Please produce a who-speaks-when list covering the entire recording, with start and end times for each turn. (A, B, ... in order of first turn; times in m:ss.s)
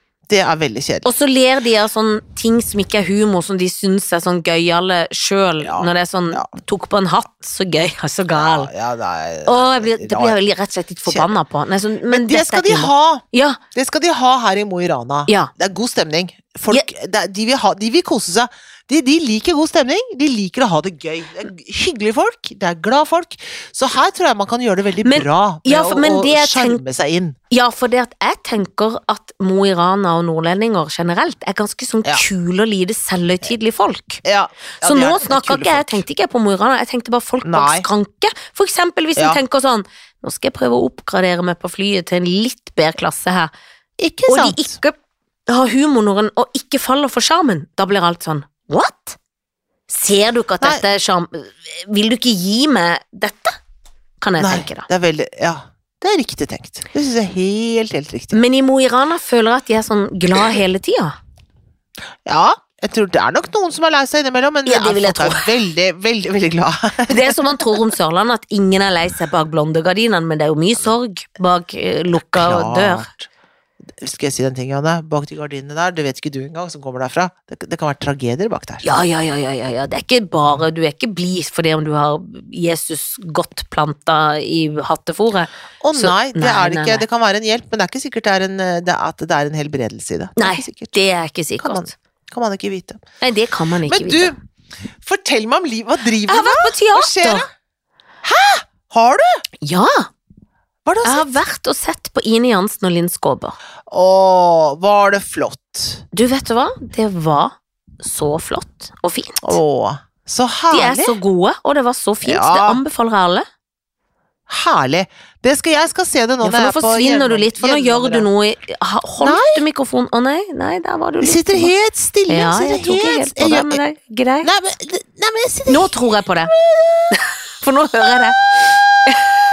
0:00.3-0:01.1 A
0:01.0-0:08.7 B
0:05.6-0:06.5 A
0:08.3-0:10.4 A
0:09.4-0:13.6 B
0:12.1-0:27.4 A
0:25.0-0:26.8 B
0:27.5-0:34.2 B
0:34.2-0:36.1 A
0:34.8-0:43.5 B
0:37.4-0:37.9 A
0:44.0-0:44.8 A
0:44.3-0:45.0 B
0:45.5-0:49.2 B
0:49.9-0:53.6 B
0:54.2-0:54.9 B
0:54.4-0:58.4 A
0:58.3-1:01.2 B
1:02.3-1:07.8 A
1:04.6-1:05.5 B
1:07.1-1:13.1 B
1:12.1-1:13.3 A
1:14.0-1:19.0 A
1:18.8-1:27.0 B
1:25.8-1:31.0 A
1:30.4-1:31.9 B
1:31.6-1:33.0 A
1:33.2-1:34.4 B
1:33.9-1:34.4 A
1:35.0-1:37.5 A
1:36.3-1:37.5 B
1:38.2-1:39.4 A
1:39.6-1:40.1 B
1:40.8-1:41.4 A
1:41.0-1:43.6 B
1:43.9-1:46.0 A
1:46.1-1:49.6 B
1:49.4-1:51.2 A
1:50.7-1:53.5 B
1:52.2-1:52.8 A
1:54.5-1:58.3 A
1:56.4-2:01.7 B
1:59.2-1:59.6 A
2:01.2-2:03.8 A
2:02.3-2:04.5 B
2:04.4-2:07.2 A
2:05.7-2:06.5 B
2:07.1-2:09.3 B